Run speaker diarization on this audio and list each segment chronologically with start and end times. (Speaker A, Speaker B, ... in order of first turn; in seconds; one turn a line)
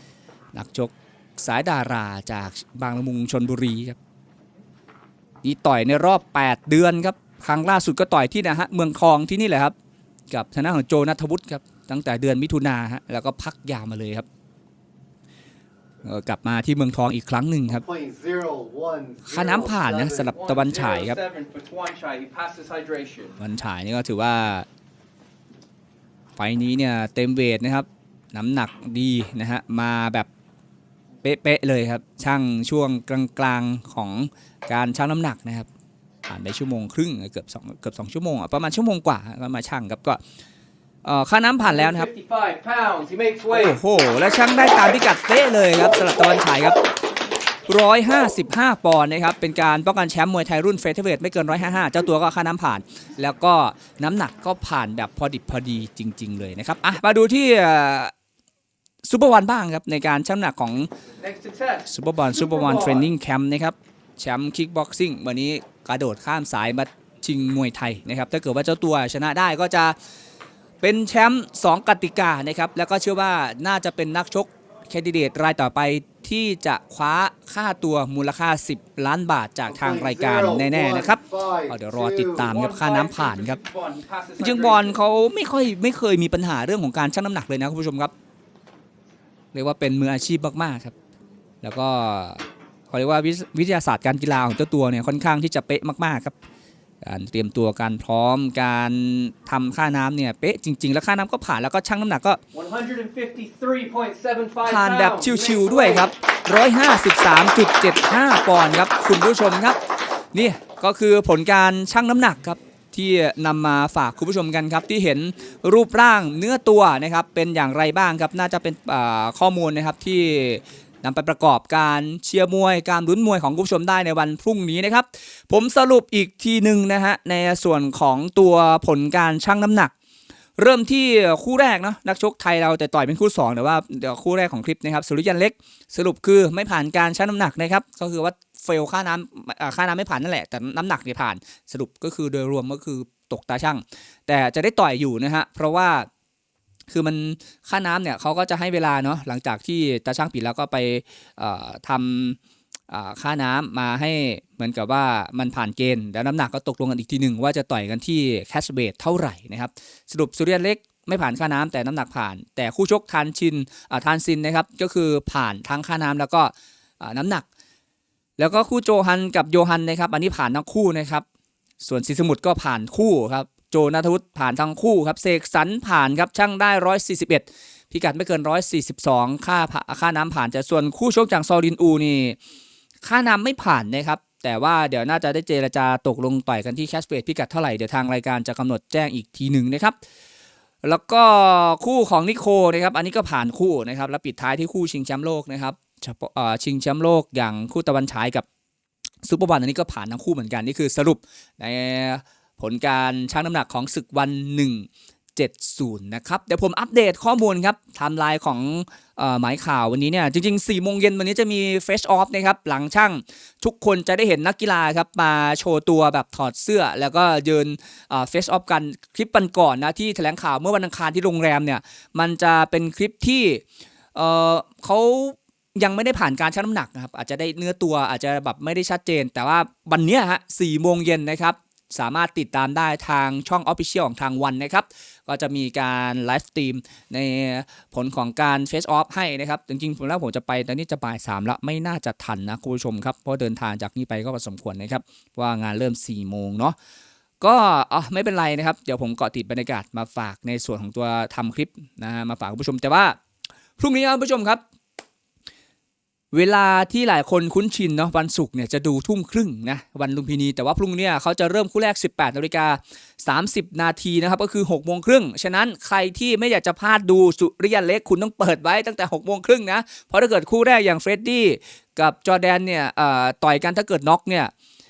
Speaker A: 0.5-4.0
Speaker A: 5.4-9.8
Speaker A: 10.3-14.3
Speaker A: 16.0-17.8
Speaker B: 17.7-20.3
Speaker A: 19.2-21.2
Speaker C: 20.3-23.4
Speaker A: 23.4-24.7
Speaker A: 26.4-30.3
Speaker A: 31.2-35.7
Speaker A: 36.3-40.2
Speaker A: 41.0-42.1
Speaker C: 41.6-43.8
Speaker A: 43.5-46.8
Speaker A: 47.7-58.1
Speaker A: 59.0-60.9
Speaker C: 61.2-63.1
Speaker A: 61.9-70.0
Speaker A: 70.8-83.6
Speaker B: 79.7-82.5
Speaker C: 82.4-85.0
Speaker A: 84.4-88.1
Speaker A: 89.5-90.9
Speaker A: 91.6-96.4
Speaker A: 97.0-102.4
Speaker C: 102.5-106.1
Speaker A: 104.7-109.8
Speaker A: 110.3-129.9
Speaker A: 130.6-146.1
Speaker A: 146.9-152.4
Speaker A: 152.9-167.5
Speaker A: 168.4-171.3
Speaker A: 171.8-182.4
Speaker A: 183.0-190.0
Speaker A: 190.8-198.4
Speaker A: 199.2-223.6
Speaker A: 224.2-246.8
Speaker A: 247.4-253.2
Speaker A: 253.8-254.6
Speaker A: 256.3-274.5